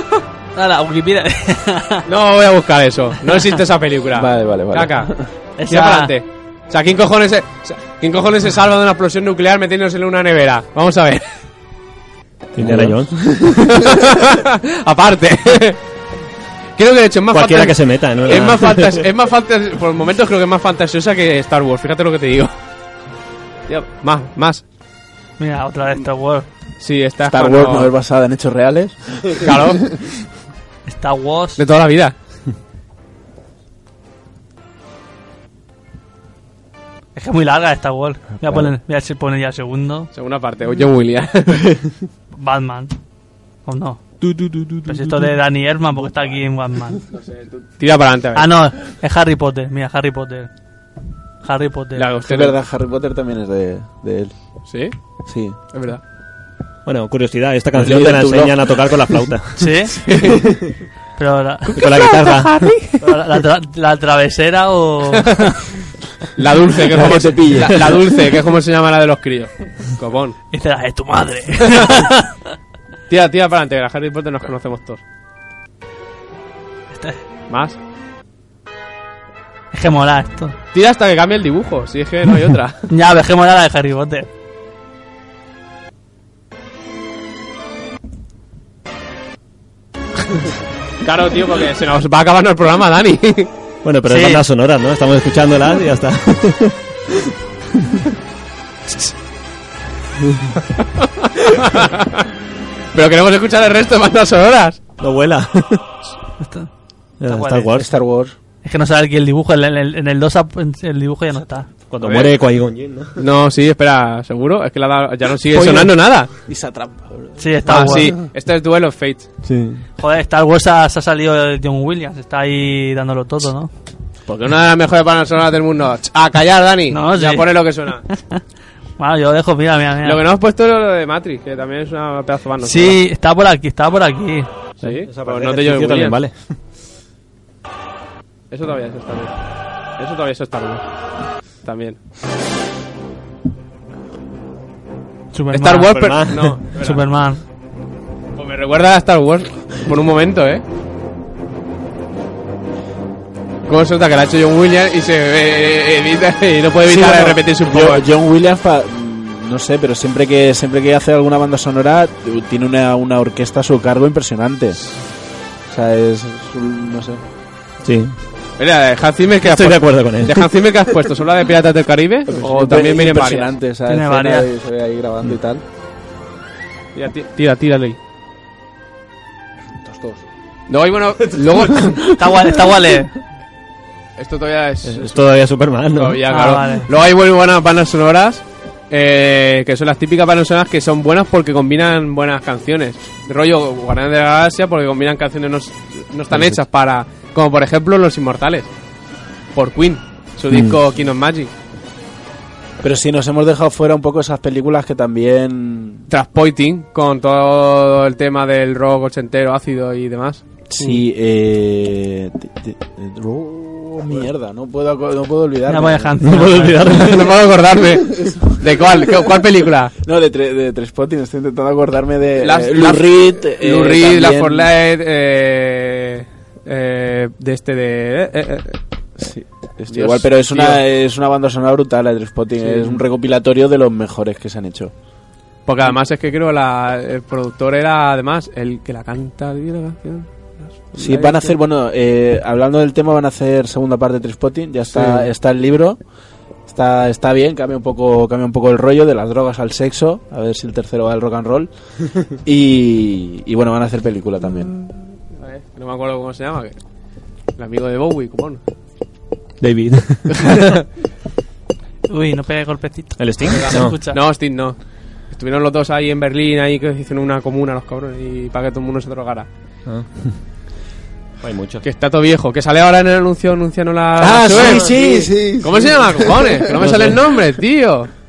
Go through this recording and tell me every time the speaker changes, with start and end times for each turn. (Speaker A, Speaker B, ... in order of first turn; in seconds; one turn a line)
Speaker A: 0.6-2.0
Speaker B: 2.1-11.2
Speaker C: 4.1-5.3
Speaker A: 5.6-6.1
Speaker D: 12.6-13.5
Speaker C: 12.6-13.6
Speaker B: 13.4-15.8
Speaker B: 16.8-22.5
Speaker D: 17.3-19.0
Speaker B: 23.7-24.6
Speaker A: 25.4-26.5
Speaker B: 26.8-27.9
Speaker C: 27.2-29.6
Speaker B: 29.4-29.9
Speaker A: 30.9-31.6
Speaker B: 31.6-32.1
Speaker A: 37.2-40.1
Speaker C: 38.4-38.7
Speaker B: 40.1-41.8
Speaker A: 42.4-43.0
Speaker A: 43.7-44.0
Speaker D: 44.2-45.3
Speaker A: 44.9-47.0
Speaker B: 47.1-48.5
Speaker A: 48.4-50.5
Speaker A: 51.4-52.1
Speaker B: 52.0-52.6
Speaker C: 52.2-54.3
Speaker B: 54.7-55.0
Speaker C: 55.3-55.6
Speaker B: 55.7-56.0
Speaker D: 56.9-59.8
Speaker C: 57.7-59.3
Speaker A: 59.6-60.0
Speaker B: 60.1-60.5
Speaker A: 61.2-61.9
Speaker D: 61.8-62.7
Speaker B: 61.8-63.0
Speaker A: 63.0-65.6
Speaker B: 66.4-70.4
Speaker C: 66.9-68.0
Speaker A: 70.5-72.3
Speaker B: 73.1-75.0
Speaker A: 76.9-77.2
Speaker B: 77.5-77.8
Speaker A: 79.7-80.5
Speaker B: 80.7-82.9
Speaker A: 82.9-84.3
Speaker B: 91.0-93.5
Speaker D: 93.8-97.3
Speaker A: 94.1-94.4
Speaker B: 100.8-102.3
Speaker B: 102.9-104.8
Speaker D: 105.0-105.8
Speaker A: 106.4-106.7
Speaker D: 107.2-107.9
Speaker A: 107.3-107.7
Speaker C: 107.7-108.3
Speaker A: 108.6-111.7
Speaker D: 111.9-113.2
Speaker B: 112.0-112.3
Speaker B: 113.2-116.3
Speaker C: 115.5-117.4
Speaker A: 117.4-118.1
Speaker B: 117.7-119.3
Speaker D: 119.4-119.8
Speaker A: 120.0-123.7
Speaker B: 124.3-128.0
Speaker A: 126.9-127.5
Speaker A: 128.1-128.4
Speaker A: 129.0-130.2
Speaker B: 130.0-133.0
Speaker A: 132.6-134.5
Speaker B: 134.8-136.2
Speaker D: 134.8-136.5
Speaker B: 138.5-139.3
Speaker B: 140.0-140.8
Speaker B: 141.6-142.0
Speaker A: 145.3-146.1
Speaker B: 145.5-147.1
Speaker D: 145.9-146.6
Speaker A: 146.7-147.4
Speaker B: 148.3-150.6
Speaker B: 153.7-158.0
Speaker C: 156.9-164.8
Speaker C: 165.7-167.2
Speaker D: 167.8-168.2
Speaker B: 168.6-173.5
Speaker D: 169.4-170.4
Speaker C: 172.3-175.6
Speaker A: 173.9-174.5
Speaker B: 176.9-178.0
Speaker C: 179.8-180.2
Speaker B: 180.7-182.2
Speaker A: 182.2-183.1
Speaker B: 184.2-185.3
Speaker D: 184.8-186.2
Speaker B: 185.9-198.7
Speaker A: 186.3-186.9
Speaker B: 199.5-201.5
Speaker D: 200.5-200.8
Speaker C: 202.8-206.1
Speaker B: 206.1-211.0
Speaker C: 210.7-216.2
Speaker A: 215.7-216.8
Speaker D: 216.2-217.3
Speaker B: 216.9-219.9
Speaker C: 220.0-224.7
Speaker B: 222.4-228.8
Speaker C: 229.2-234.9
Speaker B: 229.9-230.8
Speaker B: 232.6-233.0
Speaker B: 235.7-241.6
Speaker C: 241.0-246.0
Speaker B: 245.0-245.2
Speaker C: 246.7-254.7
Speaker B: 255.4-256.8
Speaker B: 257.6-258.6
Speaker D: 259.6-260.7
Speaker B: 260.4-260.7
Speaker A: 262.1-264.2
Speaker D: 263.2-264.0
Speaker B: 263.5-264.8
Speaker B: 265.3-269.5
Speaker D: 269.9-270.4
Speaker D: 271.4-271.9
Speaker B: 271.8-275.1
Speaker C: 274.2-276.7
Speaker D: 274.3-275.3
Speaker B: 275.6-278.1
Speaker D: 276.8-277.2